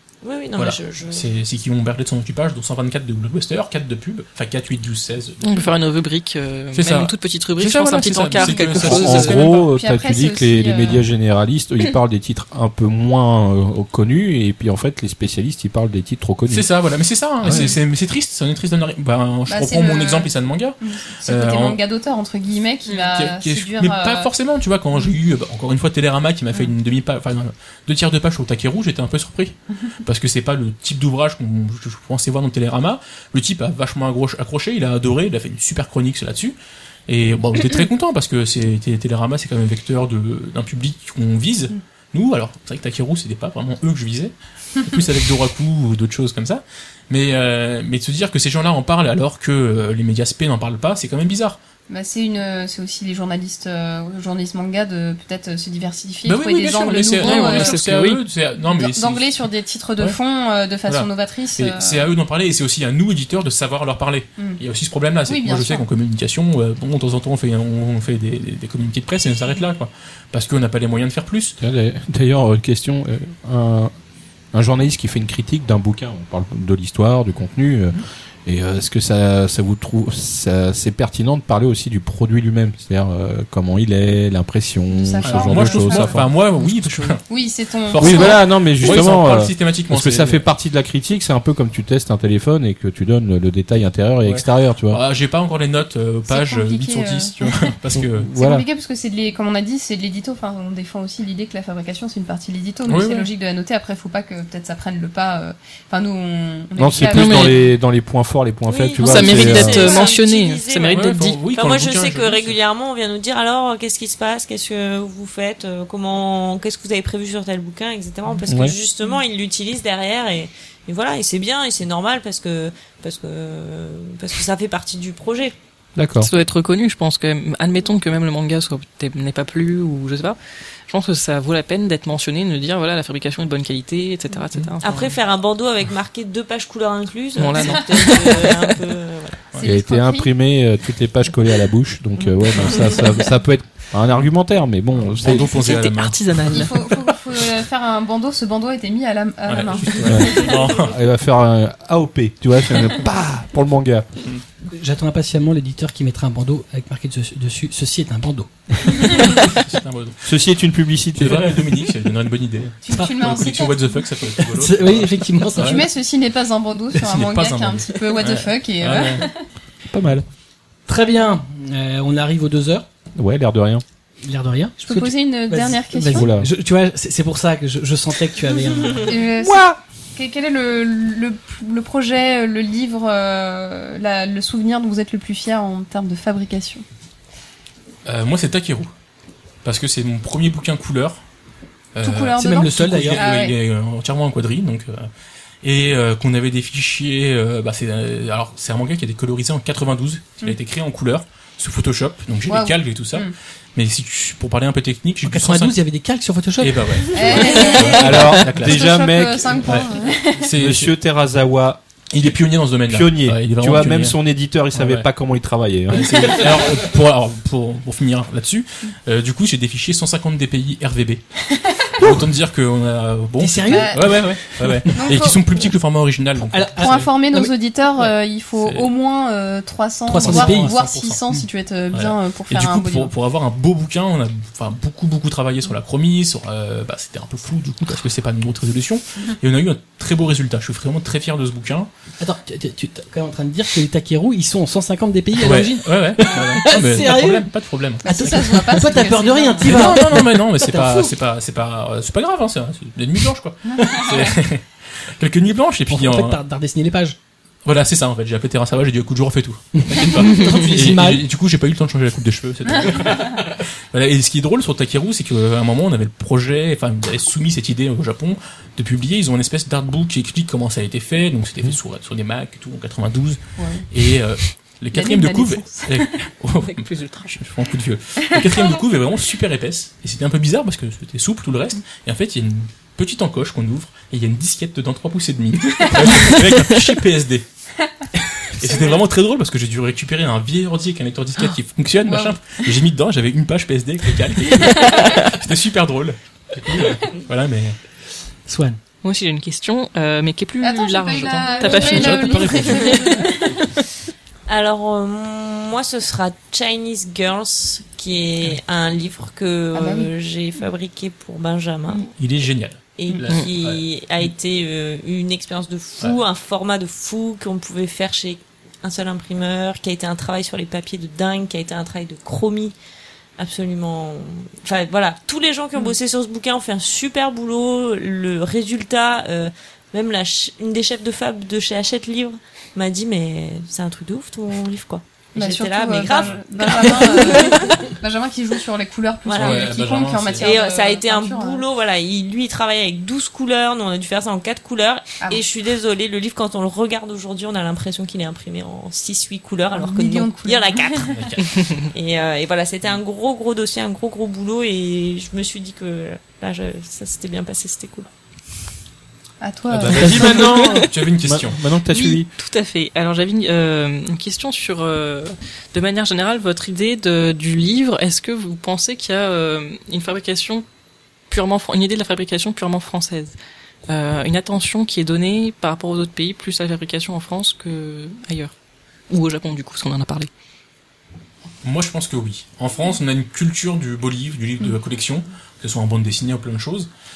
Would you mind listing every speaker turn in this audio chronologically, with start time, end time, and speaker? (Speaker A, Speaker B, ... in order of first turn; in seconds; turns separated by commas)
Speaker A: 0.2-1.3, Speaker B: 0.6-5.7, Speaker C: 5.4-9.5, Speaker B: 6.7-9.7, Speaker D: 8.7-16.7, Speaker E: 9.4-11.0, Speaker B: 16.5-21.8, Speaker D: 17.4-17.8, Speaker E: 19.5-24.3, Speaker B: 22.9-36.6, Speaker B: 37.1-51.6, Speaker E: 51.9-57.8, Speaker B: 56.2-59.5, Speaker C: 57.2-58.2, Speaker E: 58.6-62.1, Speaker B: 60.9-71.6, Speaker E: 65.3-65.9, Speaker D: 71.6-73.9, Speaker D: 74.5-86.3, Speaker E: 84.9-86.2, Speaker B: 85.2-87.2, Speaker C: 86.5-87.2, Speaker E: 87.3-89.0, Speaker B: 87.9-90.5, Speaker D: 88.0-95.0, Speaker B: 94.2-98.3, Speaker E: 96.3-97.8, Speaker D: 97.9-98.7, Speaker E: 98.3-107.6, Speaker B: 102.9-103.3, Speaker D: 106.8-110.0, Speaker C: 107.1-107.6, Speaker A: 108.7-125.6, Speaker C: 109.0-111.4, Speaker B: 110.9-112.6, Speaker D: 118.5-118.8, Speaker D: 126.0-126.3, Speaker C: 126.2-135.2, Speaker A: 134.8-139.4, Speaker C: 137.4-138.8, Speaker E: 139.6-140.3, Speaker D: 139.6-145.7, Speaker B: 144.9-146.2, Speaker C: 145.2-147.1, Speaker E: 146.5-150.7, Speaker B: 149.5-151.0, Speaker D: 150.1-154.1, Speaker F: 154.7-159.6, Speaker B: 159.0-160.2, Speaker D: 160.2-161.7, Speaker B: 161.2-165.8, Speaker E: 162.8-164.0, Speaker F: 162.9-163.4, Speaker F: 164.4-165.9, Speaker E: 165.6-169.4, Speaker B: 166.9-169.3, Speaker D: 169.9-170.2, Speaker F: 170.9-172.9, Speaker D: 173.2-173.8, Speaker F: 174.2-179.5, Speaker E: 174.8-176.3, Speaker D: 176.1-176.5, Speaker E: 179.0-186.8, Speaker B: 188.1-188.9, Speaker B: 189.6-191.2, Speaker B: 191.9-195.1, Speaker E: 192.0-193.6, Speaker F: 192.4-193.2, Speaker B: 195.6-205.8, Speaker E: 202.5-203.3, Speaker F: 205.2-207.8, Speaker B: 206.6-208.9, Speaker E: 207.1-210.5, Speaker D: 207.8-209.8, Speaker B: 209.6-210.9, Speaker D: 210.6-212.3, Speaker B: 212.1-214.2, Speaker D: 212.9-216.7, Speaker B: 214.7-215.1, Speaker B: 215.9-221.2, Speaker E: 221.5-222.1, Speaker B: 222.0-227.1, Speaker F: 223.4-225.1, Speaker E: 223.7-224.3, Speaker E: 224.9-225.5, Speaker F: 226.5-228.1, Speaker E: 226.8-233.1, Speaker B: 228.6-228.9, Speaker F: 230.1-230.8, Speaker B: 230.2-241.9, Speaker F: 242.2-247.5, Speaker B: 245.4-248.1, Speaker E: 248.0-250.2, Speaker F: 248.1-251.1, Speaker B: 249.6-256.4, Speaker E: 253.7-254.3, Speaker F: 255.9-257.2, Speaker B: 257.6-273.4, Speaker F: 259.8-261.2, Speaker E: 273.6-273.9, Speaker B: 273.9-287.4, Speaker E: 274.9-276.1, Speaker C: 276.6-277.4, Speaker E: 278.2-278.7, Speaker E: 285.8-286.3, Speaker B: 288.5-297.8, Speaker E: 288.6-288.9, Speaker E: 292.0-292.7, Speaker E: 294.6-295.2, Speaker C: 294.9-295.1, Speaker F: 298.5-298.8, Speaker C: 299.0-303.3, Speaker E: 300.6-303.7, Speaker B: 301.6-303.6, Speaker A: 304.5-312.1, Speaker E: 309.7-310.1, Speaker B: 312.2-313.8, Speaker A: 313.0-322.7, Speaker A: 323.4-337.9, Speaker E: 335.4-341.6, Speaker A: 339.2-339.7, Speaker B: 339.4-340.6, Speaker A: 340.4-358.1, Speaker E: 349.7-351.1, Speaker B: 351.1-351.6, Speaker E: 359.4-360.6, Speaker B: 359.7-361.6, Speaker D: 359.8-362.3, Speaker C: 360.4-360.9, Speaker C: 361.9-370.6, Speaker C: 371.3-373.3, Speaker C: 373.9-378.5, Speaker C: 379.1-380.3, Speaker B: 381.6-386.9